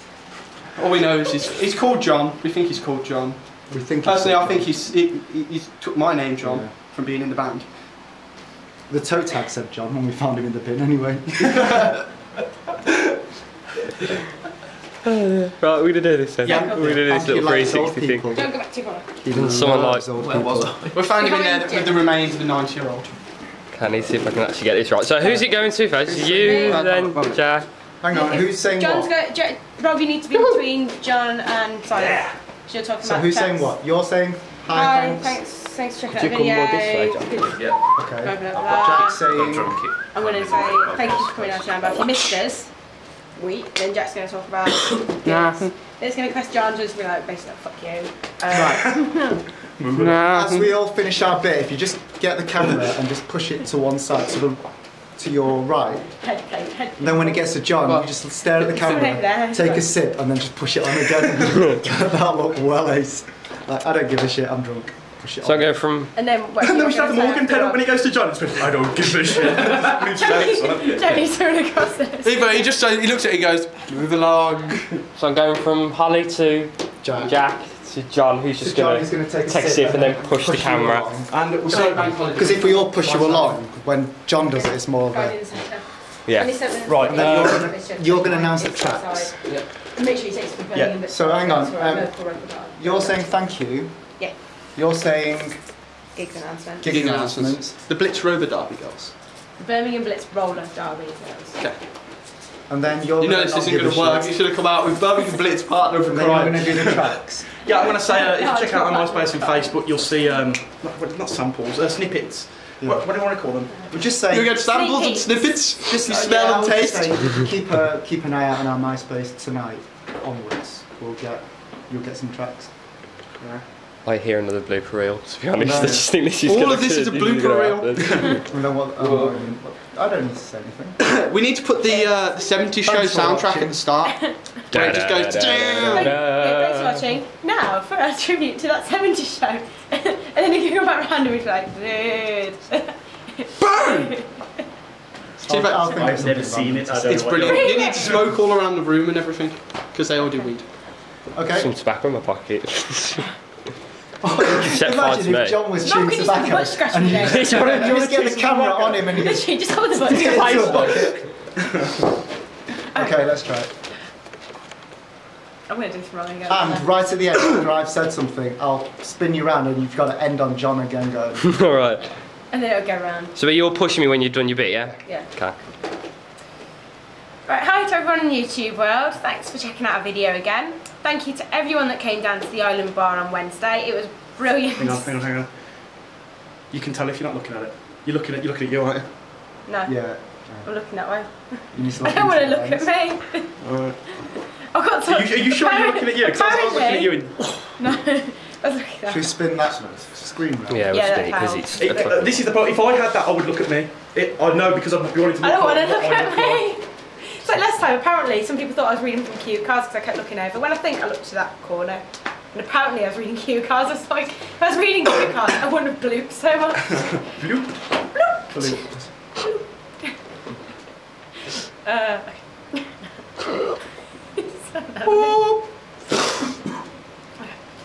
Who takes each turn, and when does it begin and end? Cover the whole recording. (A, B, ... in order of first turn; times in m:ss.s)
0:00.8-0:07.7 A
0:03.7-0:04.7 B
0:06.4-0:06.7 B
0:08.9-0:12.0 B
0:15.0-0:18.2 C
0:16.4-0:16.9 D
0:16.4-0:18.7 B
0:16.4-0:16.8 A
0:18.3-0:19.1 D
0:19.2-0:20.8 B
0:19.3-0:20.1 C
0:20.1-0:21.1 E
0:20.9-0:23.1 A
0:21.1-0:22.1 D
0:23.7-0:27.7 C
0:25.2-0:25.5 B
0:26.0-0:27.4 A
0:26.4-0:26.8 D
0:28.0-0:29.1 B
0:28.1-0:33.7 D
0:33.0-0:35.4 B
0:34.7-0:39.3 D
0:36.2-0:36.9 C
0:37.4-0:42.2 E
0:37.9-0:39.8 B
0:40.1-0:49.4 D
0:45.2-0:45.7 A
0:48.5-0:48.8 A
0:48.5-0:49.2 F
0:49.7-0:50.2 F
0:49.9-0:50.7 A
0:50.2-0:56.3 B
0:56.2-0:57.5 D
0:57.0-1:05.8 B
0:57.8-0:58.1 A
0:58.4-0:59.9 D
1:05.4-1:06.2 C
1:06.1-1:07.8 D
1:06.4-1:11.4 F
1:09.3-1:12.6 D
1:12.2-1:15.0 A
1:15.1-1:21.2 C
1:17.0-1:17.4 B
1:18.6-1:21.4 B
1:21.3-1:22.1 F
1:21.6-1:23.6 A
1:21.7-1:22.5 E
1:22.1-1:25.6 B
1:24.4-1:33.2 D
1:26.2-1:26.7 C
1:26.8-1:27.7 F
1:27.0-1:29.4 B
1:31.1-1:35.7 B
1:36.1-1:36.8 D
1:36.8-1:37.8 B
1:36.8-1:39.1 A
1:39.6-1:41.6 D
1:42.7-1:44.4 B
1:43.2-1:46.9 A
1:46.0-1:47.5 B
1:47.6-1:53.9 F
1:47.6-1:50.4 D
1:52.8-1:53.3 B
1:53.9-1:54.6 B
1:54.3-1:57.3 A
1:54.5-1:55.7 D
1:55.7-2:02.9 B
2:04.0-2:08.4 C
2:05.6-2:06.1 B
2:05.6-2:08.4 A
2:08.4-2:11.0 B
2:09.0-2:09.3 C
2:11.0-2:16.2 A
2:11.9-2:12.4 D
2:12.8-2:13.9 B
2:14.0-2:14.4 D
2:14.7-2:17.2 C
2:15.8-2:24.3 D
2:23.6-2:24.2 F
2:25.4-2:27.4 B
2:25.5-2:26.3 A
2:25.8-2:28.2 F
2:27.0-2:30.6 A
2:27.4-2:28.2 D
2:30.2-2:30.5 D
2:31.3-2:31.7 B
2:31.5-2:33.3 C
2:34.2-2:41.2 B
2:34.5-2:35.6 C
2:35.8-2:37.7 D
2:37.2-2:38.0 C
2:37.9-2:38.8 F
2:39.1-2:40.9 D
2:40.0-2:41.2 C
2:42.9-2:43.2 D
2:42.9-2:43.7 B
2:45.7-2:46.9 D
2:46.5-2:51.6 B
2:51.4-2:52.1 C
2:52.5-2:53.3 D
2:53.3-2:55.6 C
2:57.4-3:05.1 D
3:04.8-3:05.5 F
3:06.7-3:09.1 F
3:09.6-3:13.6 D
3:09.8-3:10.7 B
3:11.7-3:12.9 B
3:13.6-3:14.2 F
3:14.2-3:19.3 D
3:15.0-3:17.6 F
3:19.1-3:20.9 B
3:20.7-3:22.3 C
3:20.9-3:22.2 D
3:21.8-3:26.7 F
3:25.4-3:37.3 D
3:37.3-3:39.1 F
3:38.1-3:38.7 D
3:41.8-3:43.8 D
3:44.4-3:45.4 D
3:45.0-3:45.7 F
3:47.4-3:47.7 D